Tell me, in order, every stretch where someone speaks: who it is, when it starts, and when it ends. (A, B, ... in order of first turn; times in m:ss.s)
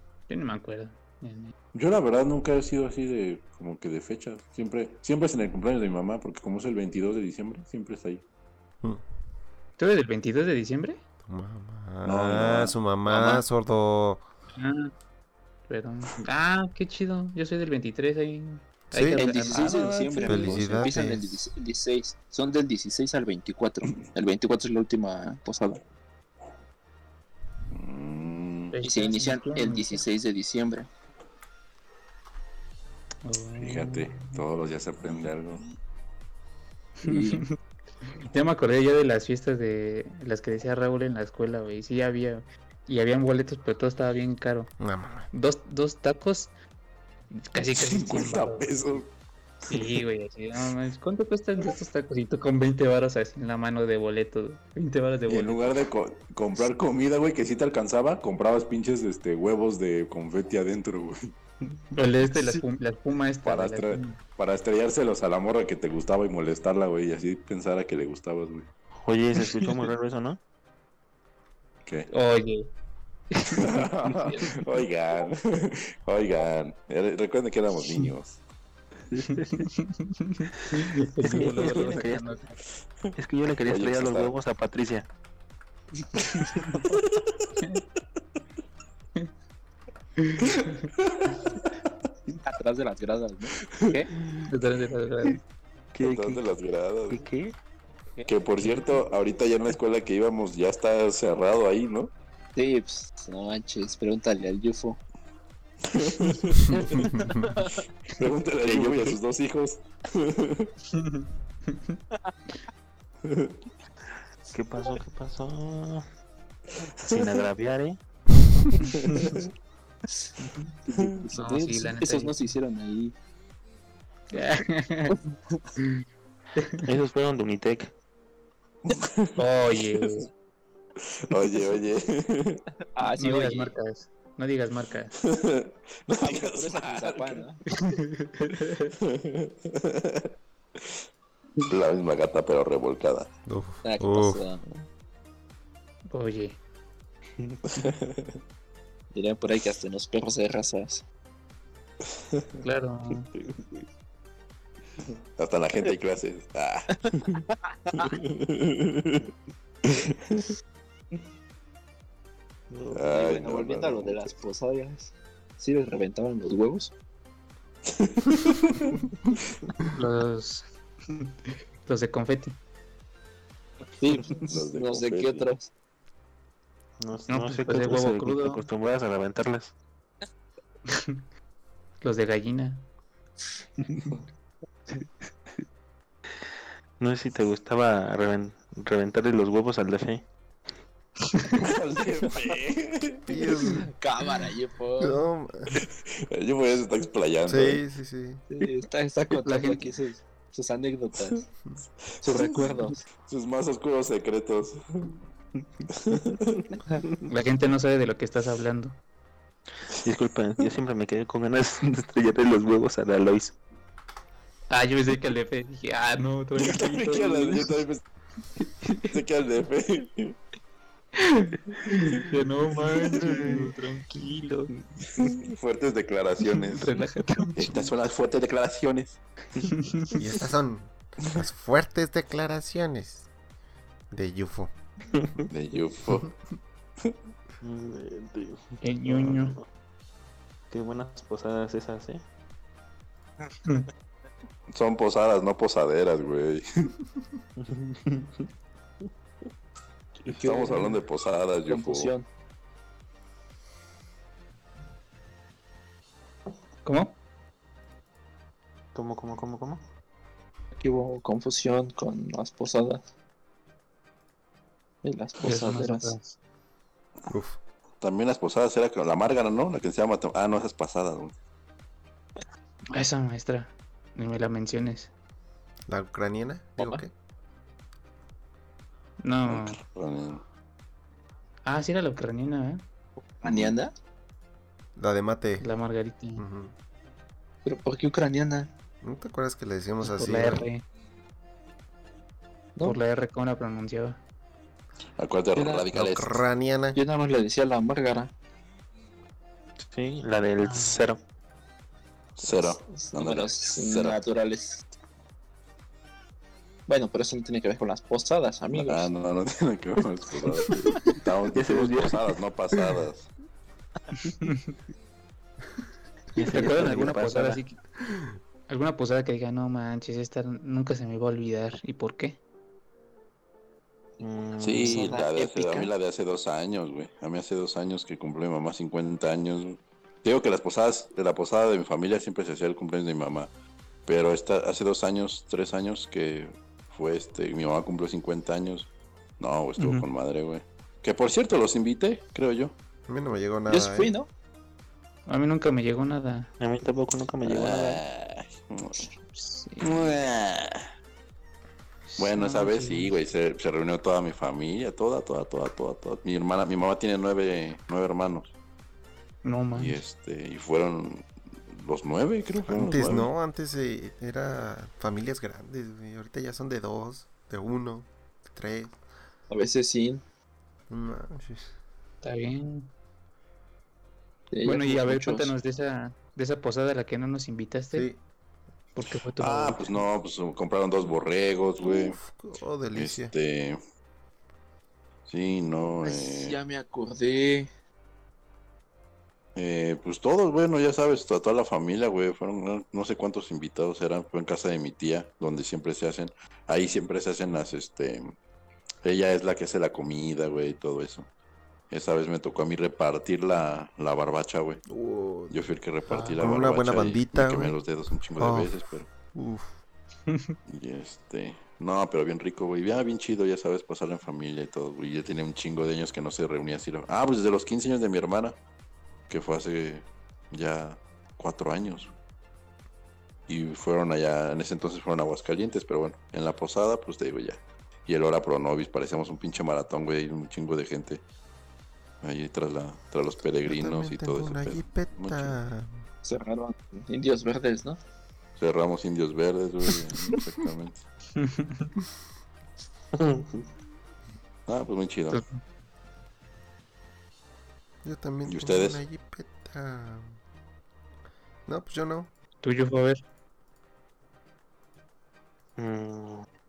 0:00.3-0:01.5 A
0:01.7-0:08.2 B
0:09.8-0:11.0 A
0:11.2-0:14.2 C
0:12.0-0:13.4 B
0:14.6-0:14.9 A
0:15.7-0:20.7 A
0:18.9-0:19.2 C
0:19.2-0:25.8 D
0:19.5-0:20.2 B
0:20.2-0:21.5 C
0:27.7-0:28.8 B
0:28.7-0:30.0 A
0:28.8-0:30.9 D
0:33.2-0:34.4 A
0:33.6-0:35.6 B
0:37.0-0:37.5 A
0:37.0-0:37.4 D
0:38.2-0:44.7 A
0:44.8-0:45.3 C
0:45.3-0:46.5 A
0:47.3-0:48.7 A
0:47.7-0:49.1 B
0:49.7-0:55.8 A
0:49.7-0:49.9 B
0:55.3-1:01.3 B
1:01.9-1:04.2 A
1:03.4-1:08.7 B
1:09.0-1:10.4 E
1:12.1-1:12.7 A
1:13.3-1:14.6 A
1:13.6-1:18.4 B
1:19.1-1:19.7 E
1:19.3-1:22.6 A
1:21.2-1:22.2 E
1:23.2-1:25.1 E
1:23.6-1:24.4 B
1:26.1-1:26.8 A
1:26.8-1:27.5 B
1:30.2-1:30.9 A
1:30.4-1:31.9 B
1:32.4-1:33.5 D
1:33.9-1:35.4 A
1:35.9-1:36.4 E
1:36.0-1:37.3 B
1:37.1-1:37.5 E
1:38.2-1:38.8 A
1:38.3-1:42.1 B
1:42.6-1:45.0 D
1:45.9-1:47.0 B
1:46.8-1:47.7 D
1:48.1-1:50.7 B
1:48.6-1:49.2 E
1:50.9-1:52.0 A
1:53.2-1:53.6 B
1:54.5-1:56.0 E
1:57.0-1:58.0 E
1:57.0-1:57.4 B
1:58.9-1:59.4 B
1:59.0-1:59.4 A
2:00.9-2:03.1 D
2:01.3-2:02.4 A
2:04.3-2:05.2 A
2:06.6-2:06.8 A
2:06.8-2:07.9 E
2:08.8-2:09.4 B
2:09.4-2:10.3 A
2:11.0-2:12.6 B
2:12.9-2:13.7 D
2:13.2-2:15.1 A
2:15.2-2:17.4 B
2:16.1-2:17.6 D
2:17.7-2:18.9 A
2:19.0-2:21.0 B
2:21.6-2:23.3 B
2:23.5-2:24.4 C
2:23.8-2:24.8 D
2:26.1-2:26.6 A
2:27.4-2:27.8 E
2:27.7-2:28.3 B
2:29.1-2:31.0 D
2:32.2-2:32.4 B
2:32.6-2:33.3 A
2:33.4-2:33.7 E
2:35.4-2:37.4 B
2:37.7-2:38.1 D
2:38.0-2:39.3 B
2:39.8-2:40.5 B
2:42.7-2:43.0 E
2:42.9-2:44.4 B
2:43.1-2:46.9 D
2:47.9-2:49.0 B
2:49.9-2:51.3 A
2:51.8-2:52.6 A
2:54.0-2:55.7 D
2:54.5-2:55.5 B
2:57.0-2:59.7 E
2:57.3-2:58.6 A
3:00.9-3:01.2 A
3:02.0-3:02.8 A
3:07.0-3:10.2 E
3:11.2-3:11.6 A
3:11.6-3:13.5 B
3:13.3-3:13.9 C
3:13.6-3:15.2 D
3:15.0-3:15.8 C
3:15.7-3:17.8 B
3:17.5-3:18.4 C
3:18.5-3:21.5 D
3:19.3-3:19.8 A
3:22.2-3:25.2 B
3:22.2-3:23.0 D
3:25.9-3:26.7 B
3:27.2-3:29.0 A
3:30.0-3:33.6 E
3:34.7-3:37.8 A
3:36.6-3:38.0 B
3:38.6-3:39.2 A
3:39.1-3:40.4 B
3:41.2-3:44.7 A
3:43.0-3:43.6 E
3:45.1-3:46.9 B
3:46.5-3:47.9 A
3:47.5-3:49.2 B
3:49.6-3:50.2 A
3:50.2-3:53.2 C
3:54.1-3:54.7 C
3:55.1-3:55.5 E
3:55.5-3:56.3 B
3:57.6-3:59.6 E
3:58.8-3:59.6 A
4:00.7-4:02.2 E
4:04.7-4:06.9 B
4:07.6-4:08.5 E
4:10.2-4:12.1 B
4:10.3-4:11.0 D
4:11.7-4:12.2 D
4:16.8-4:17.2 A
4:18.9-4:19.8 E
4:20.7-4:23.0 D
4:25.0-4:26.1 D
4:25.4-4:26.4 A
4:27.3-4:27.6 C
4:28.0-4:31.3 B
4:32.9-4:35.1 A
4:35.9-4:37.1 C
4:36.8-4:37.0 D
4:39.2-4:39.8 A
4:39.4-4:40.4 B
4:41.6-4:42.8 A
4:43.2-4:43.9 D
4:43.4-4:43.8 B
4:45.0-4:45.7 C
4:45.6-4:46.4 A
4:46.4-4:46.7 C
4:47.6-4:48.7 D
4:49.0-4:50.7 C
4:50.0-4:50.8 A
4:52.8-4:54.2 A
4:55.2-4:56.4 B
4:55.5-4:55.9 D
4:55.9-4:57.0 C
4:56.9-4:58.3 D
4:59.9-5:01.2 E
5:00.6-5:01.0 A
5:02.4-5:04.2 B
5:02.4-5:04.8 D
5:06.9-5:09.1 D
5:08.7-5:13.3 B
5:10.6-5:11.0 D
5:11.5-5:12.2 E
5:14.4-5:14.7 A
5:16.3-5:17.6 E
5:16.4-5:17.8 A
5:18.7-5:22.4 A
5:24.2-5:25.2 E
5:24.6-5:33.5 B
5:24.8-5:25.9 D
5:34.0-5:42.8 B
5:39.8-5:40.0 A
5:43.1-5:44.1 C
5:43.7-5:44.3 D
5:45.3-5:46.5 A
5:46.6-5:48.0 E
5:47.4-5:49.1 B
5:49.2-5:50.0 A
5:49.8-5:50.9 B
5:52.1-5:53.1 A
5:52.2-5:58.5 B
5:59.4-6:00.0 A
5:59.7-6:03.3 B
6:02.6-6:08.9 C
6:09.5-6:10.2 D
6:10.9-6:11.6 C
6:12.2-6:12.9 A
6:14.5-6:15.5 D
6:14.6-6:18.1 A
6:19.0-6:20.0 A
6:19.4-6:22.2 B
6:21.8-6:23.3 C
6:22.9-6:23.8 B
6:25.3-6:26.6 B
6:26.0-6:27.7 D
6:29.6-6:38.3 B
6:39.0-6:41.3 B
6:41.9-6:44.8 B
6:44.9-6:45.6 C
6:45.5-6:49.1 B
6:46.1-6:46.4 A
6:46.4-6:47.8 C
6:48.4-6:49.7 C
6:50.3-6:50.5 A
6:50.7-6:58.6 B
6:59.3-7:02.1 B
7:03.5-7:11.2 B
7:12.2-7:15.5 B
7:13.6-7:16.0 C
7:16.2-7:18.0 D
7:18.6-7:21.0 B
7:21.4-7:21.9 A
7:23.1-7:23.6 E
7:24.7-7:25.4 B
7:25.3-7:25.6 A
7:28.0-7:30.3 C
7:28.4-7:29.0 B
7:31.6-7:32.3 C
7:32.6-7:33.2 A
7:35.8-7:36.4 E